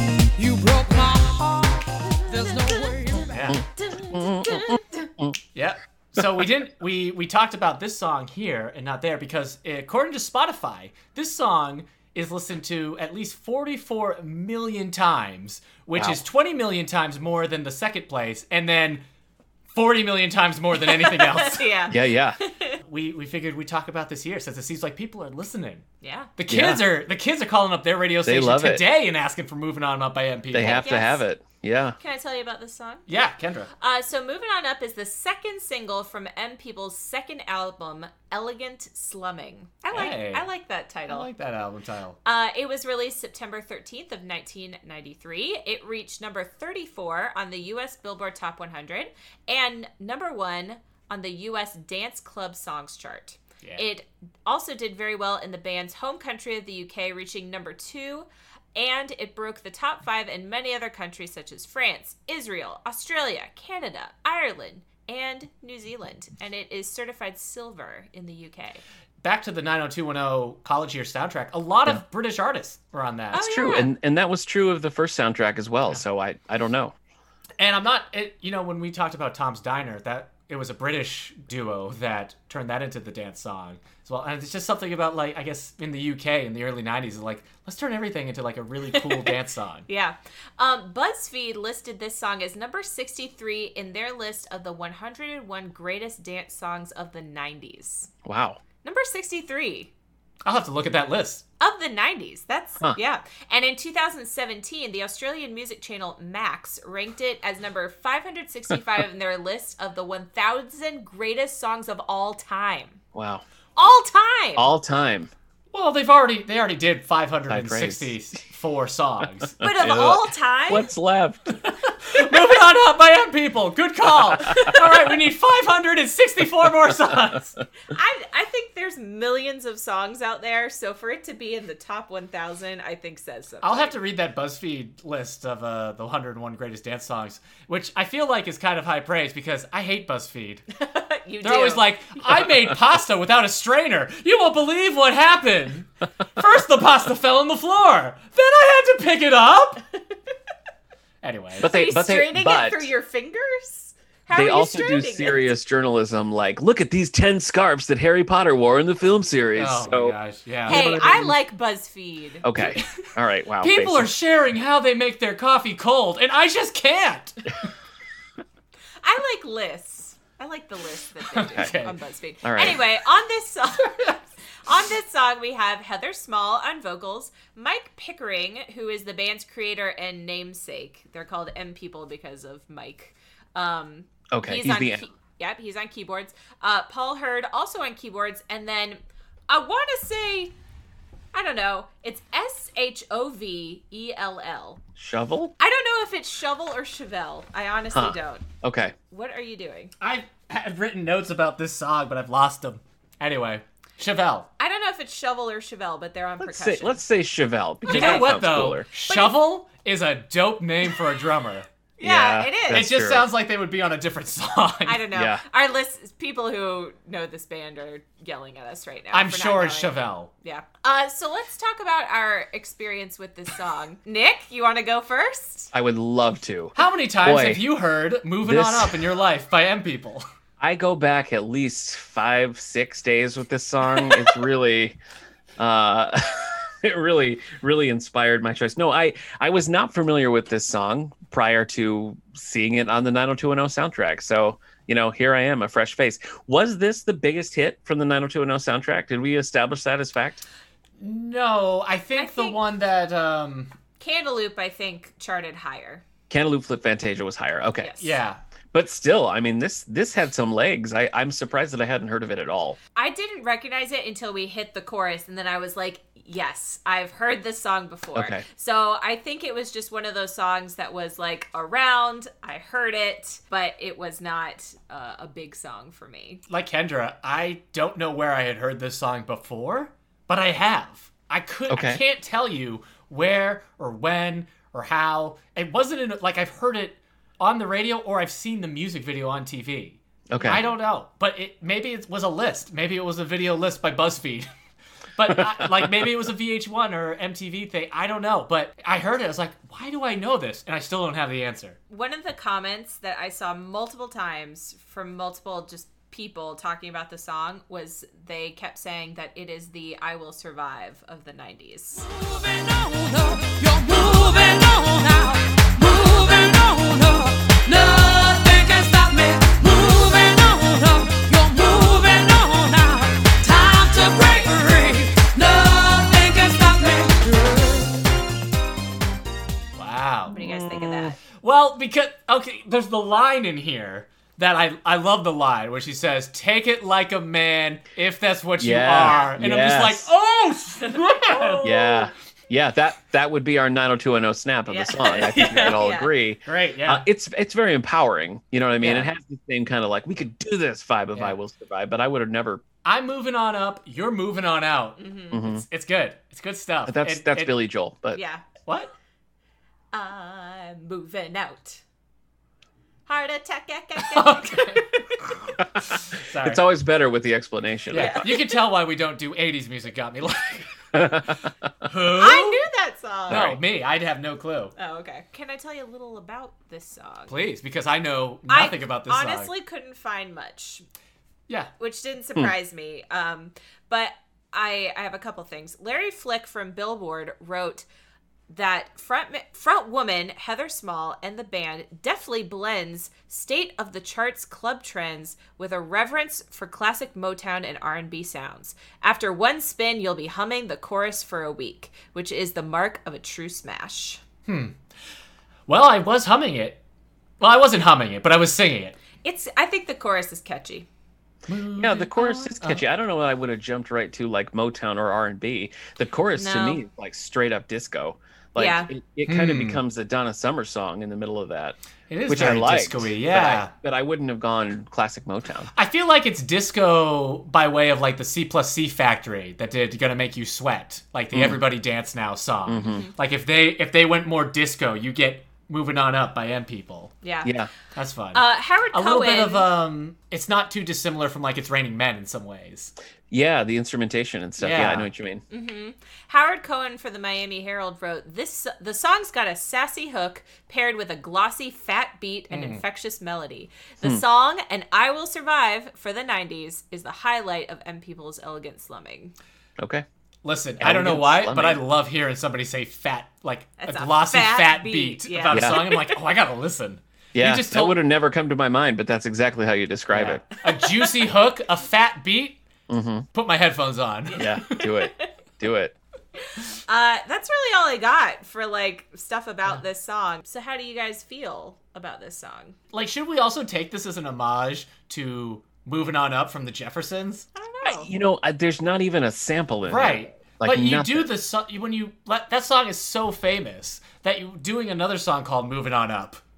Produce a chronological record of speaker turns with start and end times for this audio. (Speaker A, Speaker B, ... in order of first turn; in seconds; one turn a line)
Speaker A: 0.3-3.6
Speaker B: 3.3-3.6
Speaker C: 3.5-5.4
Speaker D: 3.9-4.8
Speaker B: 5.5-19.0
Speaker B: 19.7-21.6
Speaker D: 20.7-22.8
Speaker C: 21.9-22.4
Speaker B: 22.8-25.8
Speaker D: 26.0-26.3
Speaker B: 26.4-30.9
Speaker C: 26.5-26.8
Speaker C: 28.2-28.9
Speaker C: 30.5-31.9
Speaker D: 30.6-31.2
Speaker D: 32.0-33.1
Speaker B: 33.1-33.7
Speaker D: 33.8-41.3
Speaker B: 39.9-40.5
Speaker B: 41.1-42.2
Speaker D: 42.2-68.8
Speaker B: 69.2-73.5
Speaker D: 73.3-73.9
Speaker C: 73.4-76.9
Speaker B: 77.6-89.9
Speaker D: 88.9-98.1
Speaker C: 98.2-98.6
Speaker D: 98.8-99.9
Speaker B: 100.4-101.4
Speaker D: 101.6-113.0
Speaker C: 113.1-113.4
Speaker D: 113.8-114.7
Speaker C: 114.5-115.3
Speaker B: 115.7-119.6
Speaker C: 117.5-118.1
Speaker C: 119.6-121.5
Speaker D: 119.6-120.9
Speaker B: 121.7-127.5
Speaker D: 124.3-124.8
Speaker D: 127.8-133.9
Speaker B: 133.6-140.6
Speaker D: 140.7-141.8
Speaker B: 141.4-149.8
Speaker B: 151.2-151.7
Speaker D: 151.6-155.5
Speaker C: 151.6-152.9
Speaker C: 154.3-160.2
Speaker B: 159.6-161.2
Speaker C: 160.7-161.3
Speaker D: 160.7-162.4
Speaker C: 162.4-164.1
Speaker B: 163.6-167.7
Speaker D: 169.0-190.5
Speaker B: 171.2-172.0
Speaker C: 172.4-172.8
Speaker C: 184.3-185.0
Speaker D: 191.3-194.8
Speaker C: 195.0-195.5
Speaker D: 195.6-198.5
Speaker C: 197.9-198.9
Speaker D: 199.1-199.9
Speaker B: 200.0-204.5
Speaker D: 204.6-207.0
Speaker C: 206.4-208.9
Speaker D: 207.9-208.3
Speaker B: 207.9-211.7
Speaker D: 209.1-209.4
Speaker D: 212.0-212.8
Speaker C: 212.0-213.2
Speaker B: 212.7-215.1
Speaker D: 214.8-225.7
Speaker C: 215.1-215.4
Speaker B: 219.1-220.3
Speaker C: 225.7-227.6
Speaker B: 226.8-230.2
Speaker C: 228.4-229.0
Speaker C: 230.6-234.9
Speaker C: 235.6-250.4
Speaker B: 251.0-253.7
Speaker D: 252.2-252.6
Speaker D: 254.0-256.0
Speaker C: 256.3-258.0
Speaker D: 257.8-258.2
Speaker B: 258.0-258.4
Speaker C: 258.7-262.8
Speaker D: 262.9-276.4
Speaker C: 268.1-268.4
Speaker B: 276.5-294.5
Speaker C: 281.7-282.0
Speaker C: 290.3-290.6
Speaker B: 295.1-301.8
Speaker D: 301.9-312.1
Speaker A: 312.0-328.1
Speaker B: 329.8-330.4
Speaker D: 330.3-331.2
Speaker C: 330.3-331.1
Speaker B: 331.3-341.8
Speaker C: 338.6-340.1
Speaker D: 340.8-342.0
Speaker C: 341.6-352.6
Speaker D: 344.7-346.1
Speaker B: 346.4-347.0
Speaker B: 348.8-349.1
Speaker B: 352.8-357.5
Speaker D: 355.0-355.4
Speaker C: 355.3-355.6
Speaker C: 356.9-358.2
Speaker D: 358.1-358.5
Speaker B: 358.6-358.9
Speaker D: 359.9-361.8
Speaker D: 363.1-365.4
Speaker B: 364.1-366.6
Speaker C: 365.6-368.3
Speaker D: 367.9-368.5
Speaker B: 367.9-371.2
Speaker C: 370.9-371.5
Speaker B: 371.8-372.6
Speaker D: 372.1-373.5
Speaker C: 373.3-373.6
Speaker B: 373.3-374.7
Speaker D: 374.8-377.3
Speaker B: 377.3-379.5
Speaker D: 378.5-380.9
Speaker D: 381.8-387.9
Speaker D: 388.5-404.2
Speaker B: 404.4-404.8
Speaker B: 405.7-406.8
Speaker B: 407.4-408.9
Speaker D: 409.2-410.9
Speaker B: 411.5-412.8
Speaker C: 411.8-421.8
Speaker D: 416.3-416.8
Speaker D: 418.6-418.9
Speaker B: 419.2-419.8
Speaker B: 422.1-423.7
Speaker C: 422.3-425.7
Speaker B: 425.7-437.1
Speaker C: 431.3-431.6
Speaker C: 432.7-433.1
Speaker D: 432.8-433.1
Speaker D: 437.2-437.5
Speaker C: 437.4-437.7
Speaker B: 437.9-442.9
Speaker D: 438.3-439.7
Speaker C: 443.3-445.4
Speaker B: 444.6-445.1
Speaker D: 445.5-459.3
Speaker B: 452.5-452.8
Speaker C: 459.8-460.0
Speaker B: 460.4-468.0
Speaker C: 460.8-461.8
Speaker D: 463.8-466.2
Speaker C: 465.5-465.8
Speaker C: 467.3-470.4
Speaker B: 470.1-472.6
Speaker D: 470.6-471.3
Speaker C: 472.9-473.3
Speaker B: 473.3-474.6
Speaker D: 474.3-475.3
Speaker C: 474.4-475.9
Speaker D: 476.9-482.8
Speaker B: 482.9-487.4
Speaker D: 487.6-488.1
Speaker C: 487.8-491.3
Speaker B: 489.9-496.4